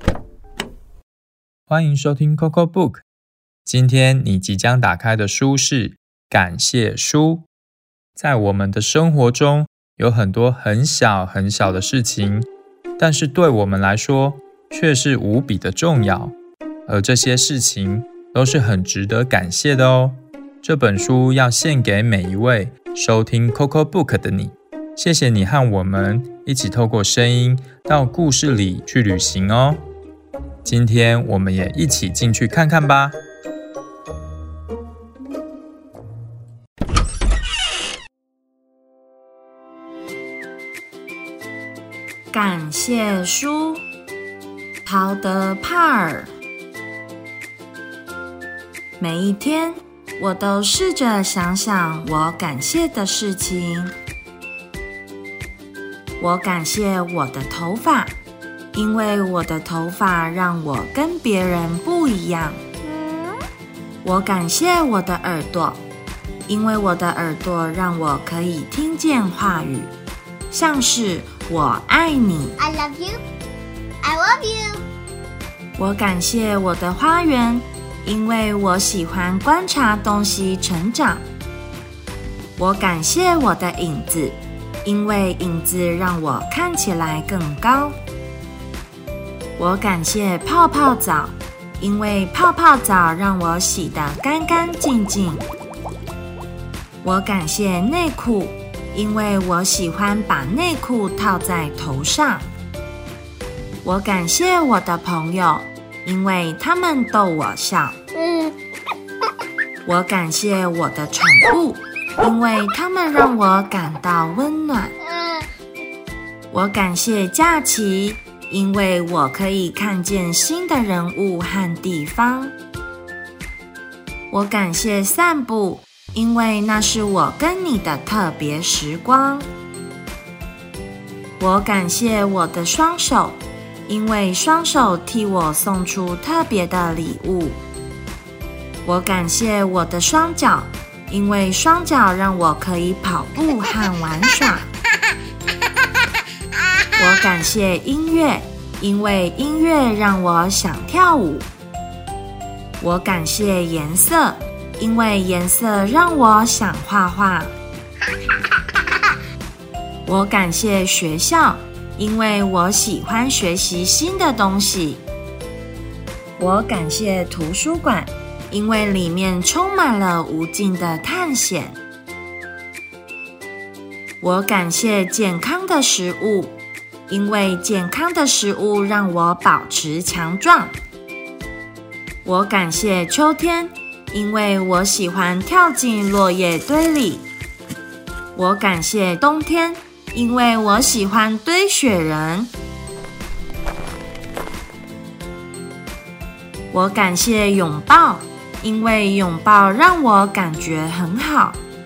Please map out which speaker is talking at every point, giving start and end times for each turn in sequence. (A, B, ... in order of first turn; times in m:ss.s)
0:01.7-0:03.0 A
0:03.7-0:07.5 A
0:08.2-0:12.5 A
0:13.0-0:16.3 A
0:16.9-0:29.8 A
0:30.6-0:33.2 A
0:42.3-0:43.8 B
0:44.8-0:46.3 B
0:49.0-0:53.9 B
0:56.2-0:58.2 B
0:58.7-1:02.6 B
1:02.8-1:03.4 C
1:04.0-1:05.8 B
1:06.5-1:09.9 B
1:10.5-1:12.6 B
1:12.6-1:13.2 C
1:14.0-1:14.8 C
1:15.8-1:21.2 B
1:22.6-1:28.0 B
1:29.6-1:35.4 B
1:37.0-1:42.5 B
1:43.8-1:48.0 B
1:48.2-1:48.6 C
1:49.8-1:55.0 B
1:55.0-1:55.5 C
1:56.5-2:02.5 B
2:04.3-2:09.5 B
2:11.4-2:17.6 B
2:18.8-2:24.7 B
2:27.0-2:31.5 B
2:32.8-2:37.5 B
2:40.0-2:45.0 B
2:46.4-2:51.8 B
2:54.2-2:56.6 B
2:57.1-3:00.7 B
3:02.2-3:07.2 B
3:08.3-3:12.5 B
3:16.7-3:21.6 B